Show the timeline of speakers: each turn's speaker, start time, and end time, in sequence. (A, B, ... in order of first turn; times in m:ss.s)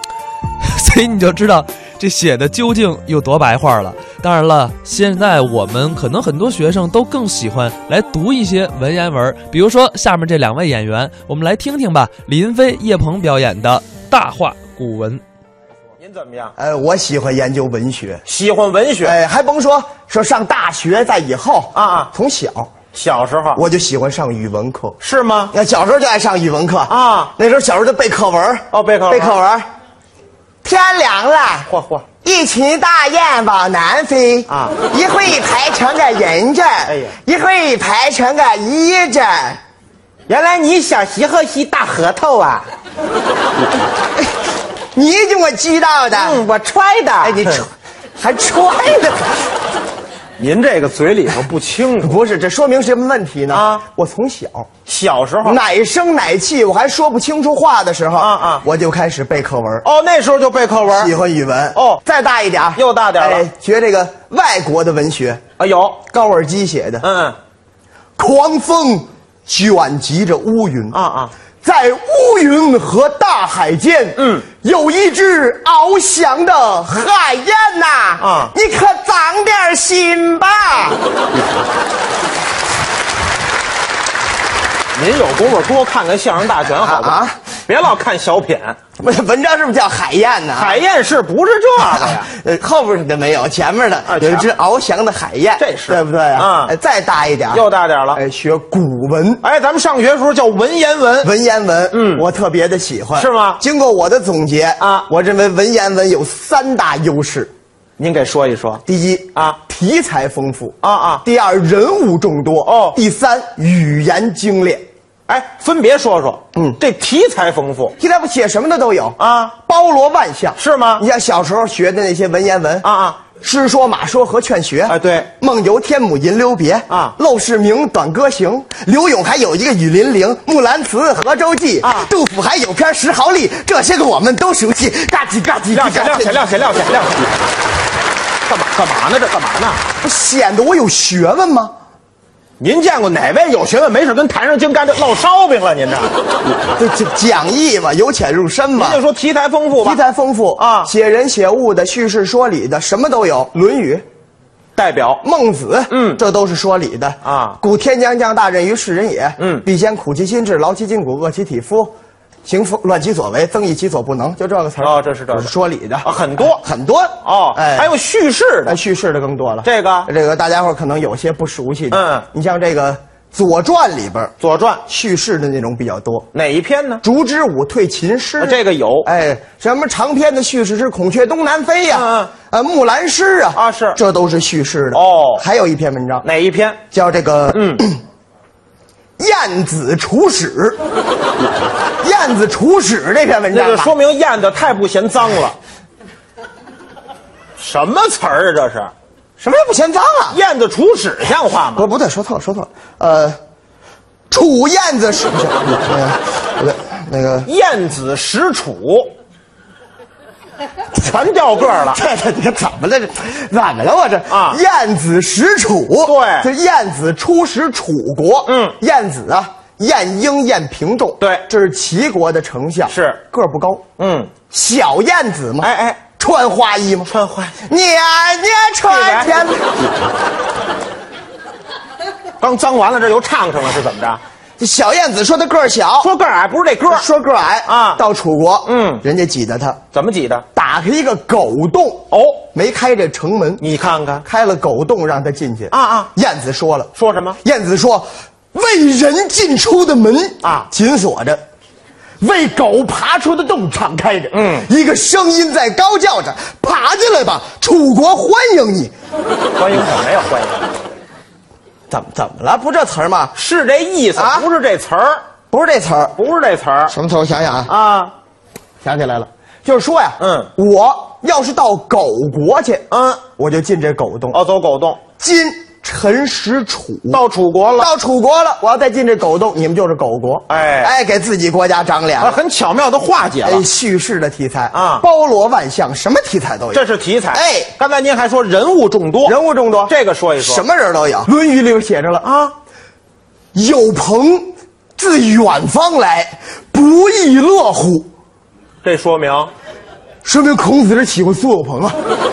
0:00.6-0:15.2 A
0:16.0-0:16.5 B
0:16.6-0:18.2 C
0:18.3-0:19.2 B
0:19.0-0:22.7 C
0:21.7-0:22.1 B
0:22.9-0:23.6 B
0:23.5-0:25.0 C
0:25.0-0:25.5 B
0:25.5-0:29.7 C
0:26.9-0:27.3 B
0:28.7-0:29.4 B
0:30.6-0:31.7 C
0:31.7-0:32.1 B
0:32.2-0:39.6 C
0:34.5-0:34.8 B
0:36.9-0:37.1 B
0:40.3-0:42.7 B
0:44.9-0:46.4 C
0:46.2-0:47.6 B
0:47.2-0:49.3 C
0:50.4-0:52.2 B
0:52.0-0:54.7 C
0:53.5-0:53.8 B
0:54.8-0:55.6 B
0:55.4-0:59.8 C
0:58.2-0:58.6 B
0:59.8-1:01.1 B
1:00.9-1:05.4 C
1:02.8-1:03.4 B
1:05.6-1:06.0 B
1:06.0-1:07.1 C
1:07.0-1:07.4 B
1:08.2-1:11.0 C
1:10.9-1:11.3 B
1:11.6-1:21.0 C
1:14.2-1:14.4 B
1:18.2-1:18.5 B
1:24.9-1:28.8 B
1:26.7-1:27.4 C
1:29.0-1:30.8 C
1:30.6-1:32.3 B
1:31.8-1:39.4 C
1:34.1-1:34.5 B
1:35.6-1:36.7 B
1:37.5-1:38.2 B
1:39.4-1:41.3 B
1:41.2-1:47.5 C
1:41.9-1:42.2 B
1:43.2-1:43.6 B
1:44.8-1:45.0 B
1:48.0-1:48.8 B
1:48.8-1:54.9 C
1:50.8-1:51.2 B
1:52.6-1:53.0 B
1:55.3-1:57.9 B
1:56.5-1:56.8 C
1:58.0-2:16.5 C
1:59.2-1:59.5 B
2:00.6-2:01.0 B
2:02.8-2:03.2 B
2:04.9-2:05.3 B
2:06.9-2:07.1 B
2:11.8-2:12.1 B
2:15.7-2:17.4 B
2:18.4-2:19.8 B
2:20.0-2:21.7 C
2:22.6-2:26.1 B
2:26.8-2:29.0 C
2:28.8-2:30.0 B
2:29.8-2:34.0 C
2:30.6-2:30.9 B
2:34.8-2:35.2 B
2:35.2-2:47.9 C
2:35.9-2:36.2 B
2:37.2-2:37.6 B
2:39.4-2:39.6 B
2:44.8-2:45.5 B
2:46.0-2:46.6 B
2:47.2-2:48.8 B
2:48.6-2:54.3 C
2:49.6-2:50.1 B
2:51.9-2:52.2 B
2:54.4-2:54.8 B
2:54.8-2:56.3 C
2:56.3-2:57.0 B
2:57.0-3:06.2 C
2:58.4-2:59.1 B
3:01.9-3:02.3 B
3:03.5-3:04.0 B
3:04.9-3:05.4 B
3:06.2-3:06.8 B
3:06.9-3:08.0 C
3:07.5-3:07.8 B
3:09.2-3:10.8 C
3:12.0-3:13.9 C
3:13.5-3:15.6 B
3:17.6-3:18.9 B
3:19.4-3:20.4 C
3:20.3-3:21.8 B
3:21.7-3:23.4 C
3:24.3-3:27.5 C
3:27.4-3:29.1 B
3:31.0-3:32.0 B
3:31.9-3:43.9 C
3:34.3-3:34.6 B
3:36.0-3:36.5 B
3:38.4-3:38.7 B
3:41.2-3:41.4 B
3:42.9-3:43.2 B
3:44.0-3:44.3 B
3:44.5-3:49.8 C
3:45.6-3:46.0 B
3:47.1-3:47.6 B
3:48.9-3:49.3 B
3:52.4-3:54.2 B
3:54.6-3:56.1 C
3:56.0-3:57.0 B
3:56.9-3:59.8 C
3:57.7-3:58.0 B
3:58.6-3:59.0 B
3:59.9-4:00.4 B
4:00.5-4:03.6 C
4:02.1-4:02.4 B
4:03.6-4:04.2 B
4:04.2-4:11.4 C
4:05.7-4:06.1 B
4:07.0-4:07.4 B
4:12.2-4:18.9 C
4:14.3-4:14.7 B
4:19.6-4:20.7 B
4:21.9-4:23.3 C
4:23.3-4:25.2 B
4:24.1-4:24.5 C
4:25.5-4:26.2 C
4:26.2-4:26.9 B
4:26.9-4:27.7 C
4:27.7-4:28.1 B
4:28.8-4:34.4 C
4:30.2-4:30.5 B
4:32.9-4:33.2 B
4:34.3-4:35.0 B
4:35.2-4:37.2 C
4:37.1-4:37.9 B
4:37.8-4:42.4 C
4:40.5-4:40.9 B
4:42.2-4:43.6 B
4:43.4-4:47.7 C
4:44.7-4:45.0 B
4:46.7-4:49.3 B
4:49.2-4:52.3 C
4:49.8-4:50.6 B
4:52.2-4:52.5 B
4:53.5-4:58.1 C
4:58.8-4:59.5 B
5:00.2-5:02.0 C